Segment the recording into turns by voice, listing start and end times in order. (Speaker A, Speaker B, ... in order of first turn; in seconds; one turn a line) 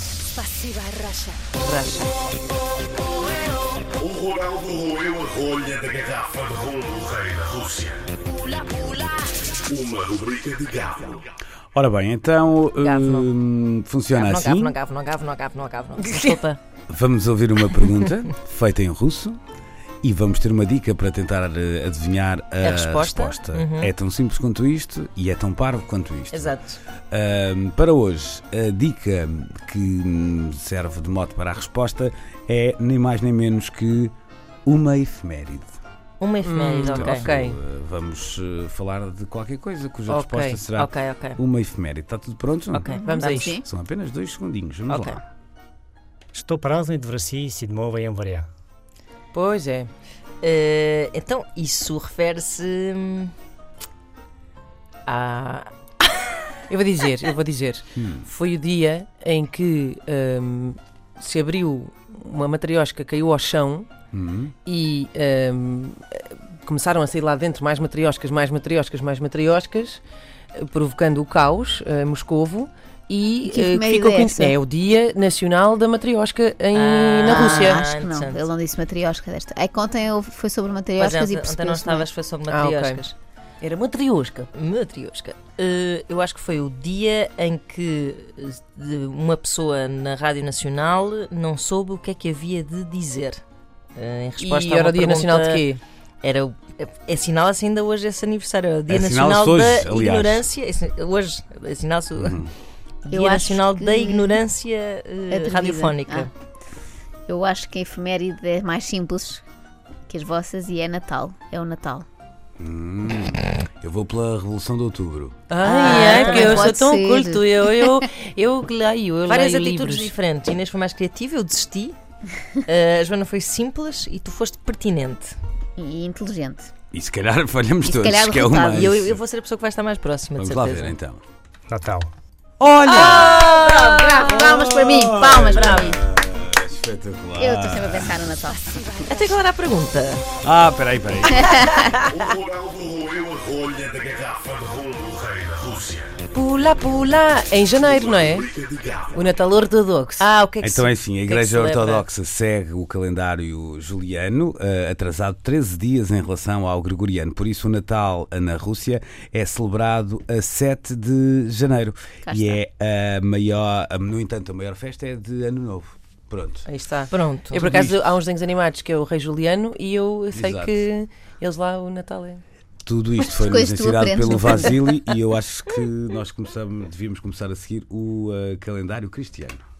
Speaker A: 0.4-2.1
Speaker B: 4.0-8.0
Speaker A: 8.7-9.1
Speaker B: 9.7-11.2
Speaker C: 11.7-14.7
Speaker D: 12.8-13.3
Speaker D: 14.1-16.6
Speaker A: 16.0-16.4
Speaker C: 16.9-19.4
Speaker C: 20.0-26.6
Speaker D: 22.6-23.9
Speaker D: 26.4-26.7
Speaker C: 27.1-34.1
Speaker C: 34.6-35.7
Speaker D: 36.2-37.3
Speaker A: 36.4-37.6
Speaker C: 37.0-45.2
Speaker A: 40.1-40.6
Speaker D: 40.7-41.4
Speaker D: 42.7-43.5
Speaker E: 43.0-43.6
Speaker A: 43.0-43.5
Speaker D: 44.9-45.2
Speaker F: 46.3-48.5
Speaker A: 49.3-49.9
Speaker D: 50.4-53.3
Speaker D: 55.1-55.7
Speaker A: 56.7-63.9
Speaker C: 58.0-58.3
Speaker C: 64.1-64.5
Speaker A: 64.7-70.0
Speaker A: 70.5-77.8
Speaker E: 73.5-74.6
Speaker D: 76.7-78.5
Speaker E: 77.2-82.1
Speaker D: 81.0-83.2
Speaker A: 82.5-83.0
Speaker A: 83.6-84.5
Speaker D: 84.5-93.4
Speaker D: 94.0-95.7
Speaker A: 94.4-95.8
Speaker D: 96.2-102.5
Speaker C: 98.9-100.5
Speaker C: 102.2-102.5
Speaker D: 103.0-106.3
Speaker E: 103.1-104.4
Speaker E: 105.3-106.3
Speaker E: 107.3-109.4
Speaker E: 110.1-112.1
Speaker C: 112.6-115.4
Speaker A: 115.5-120.2
Speaker D: 115.6-116.8
Speaker E: 115.6-118.0
Speaker D: 119.3-122.0
Speaker D: 122.6-125.4
Speaker E: 125.8-126.7
Speaker C: 126.9-129.2
Speaker E: 127.8-129.0
Speaker D: 128.7-130.9
Speaker C: 130.4-131.2
Speaker F: 131.7-132.1
Speaker C: 132.6-138.2
Speaker D: 132.8-134.5
Speaker E: 132.9-136.0
Speaker D: 135.5-135.9
Speaker E: 137.4-139.0
Speaker D: 139.1-140.2
Speaker C: 140.4-141.9
Speaker E: 141.3-141.8
Speaker D: 141.6-142.1
Speaker B: 142.1-146.1
Speaker A: 146.3-148.5
Speaker B: 148.1-149.0
Speaker A: 149.2-150.3
Speaker D: 150.2-152.0
Speaker C: 150.6-166.7
Speaker E: 162.2-162.6
Speaker A: 166.7-172.4
Speaker D: 167.1-167.9
Speaker C: 170.3-170.8
Speaker C: 172.8-179.6
Speaker E: 173.2-174.8